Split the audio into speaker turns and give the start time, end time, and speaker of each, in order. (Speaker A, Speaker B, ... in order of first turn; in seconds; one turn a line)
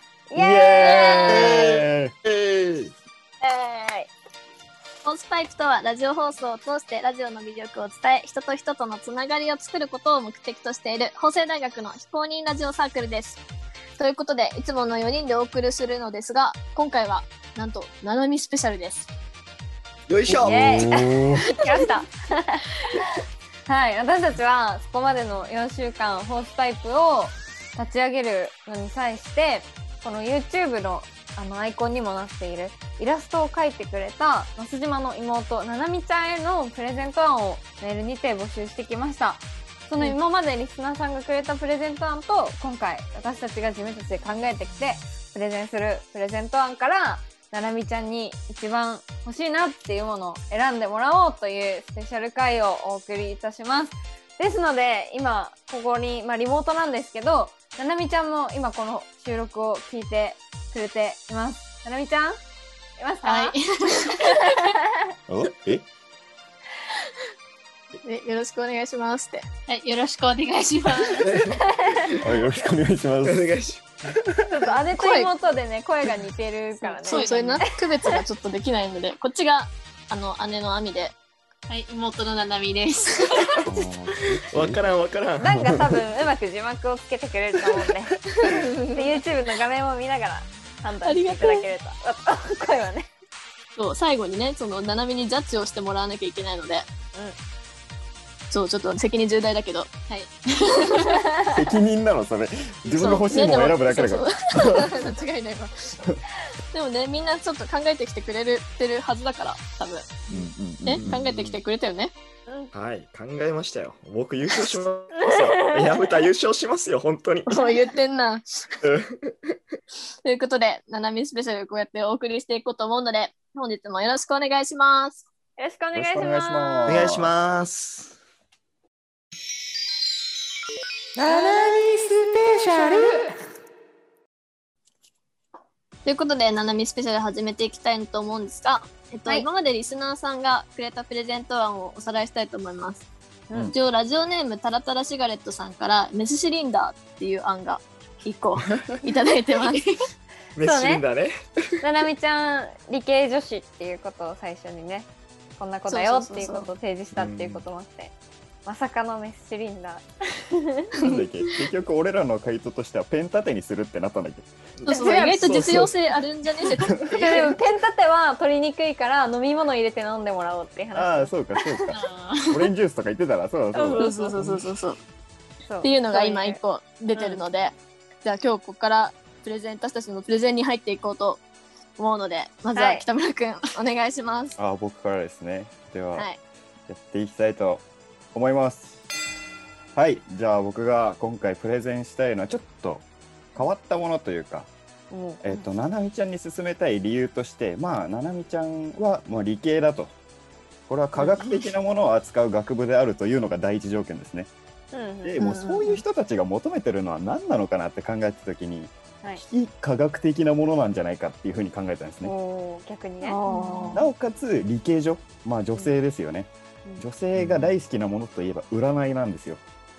Speaker A: 0.3-1.6
Speaker B: 0.4-2.1
Speaker C: 1.3-2.9
Speaker D: 3.4-4.1
Speaker D: 5.0-13.4
Speaker D: 14.0-19.1
Speaker C: 20.1-20.9
Speaker B: 20.3-21.5
Speaker A: 20.4-23.0
Speaker A: 23.7-62.4
Speaker A: 63.0-64.9
Speaker E: 63.4-64.2
Speaker B: 65.3-65.9
Speaker D: 68.0-69.5
Speaker E: 69.7-71.3
Speaker C: 71.1-72.2
Speaker A: 71.6-72.1
Speaker B: 72.2-73.5
Speaker C: 73.2-73.8
Speaker A: 74.5-77.6
Speaker D: 75.0-75.3
Speaker D: 76.8-81.2
Speaker E: 77.0-77.6
Speaker E: 81.7-83.5
Speaker A: 83.5-83.9
Speaker B: 83.6-84.9
Speaker C: 84.5-85.6
Speaker A: 85.4-88.2
Speaker B: 85.6-85.9
Speaker D: 88.4-89.2
Speaker A: 88.9-93.1
Speaker D: 91.0-91.7
Speaker D: 93.8-96.9
Speaker D: 98.5-99.9
Speaker A: 101.0-101.5
Speaker B: 101.5-105.0
Speaker D: 102.9-106.0
Speaker D: 106.7-110.1
Speaker B: 110.3-111.2
Speaker C: 110.3-111.6
Speaker D: 110.8-112.1
Speaker C: 112.7-117.7
Speaker A: 115.2-116.0
Speaker D: 117.5-118.5
Speaker C: 118.8-119.5
Speaker D: 120.2-125.3
Speaker A: 125.6-127.0
Speaker B: 125.9-127.3
Speaker C: 126.9-128.2
Speaker D: 136.1-143.1
Speaker A: 143.5-143.8
Speaker D: 143.7-149.9
Speaker C: 150.6-151.3
Speaker A: 150.6-151.1
Speaker A: 151.8-158.1
Speaker D: 155.9-156.7
Speaker C: 157.1-157.6
Speaker A: 158.7-161.1
Speaker B: 161.0-164.5
Speaker C: 164.8-165.9
Speaker A: 164.9-165.8
Speaker D: 164.9-167.6
Speaker A: 167.1-171.4
Speaker B: 170.9-174.4
Speaker E: 171.9-172.6
Speaker A: 173.7-174.3
Speaker D: 174.0-175.0
Speaker A: 175.7-176.6
Speaker D: 175.8-181.4
Speaker D: 182.0-184.6
Speaker A: 182.8-183.1
Speaker B: 184.6-186.3
Speaker B: 186.9-188.9
Speaker B: 189.9-194.7
Speaker A: 195.1-195.7
Speaker B: 195.4-200.1
Speaker B: 200.9-204.5
Speaker A: 201.2-201.4
Speaker A: 204.9-205.4
Speaker B: 205.2-212.3
Speaker D: 205.4-206.0
Speaker A: 212.2-213.8
Speaker D: 213.2-214.1
Speaker B: 213.9-219.6
Speaker C: 217.3-217.8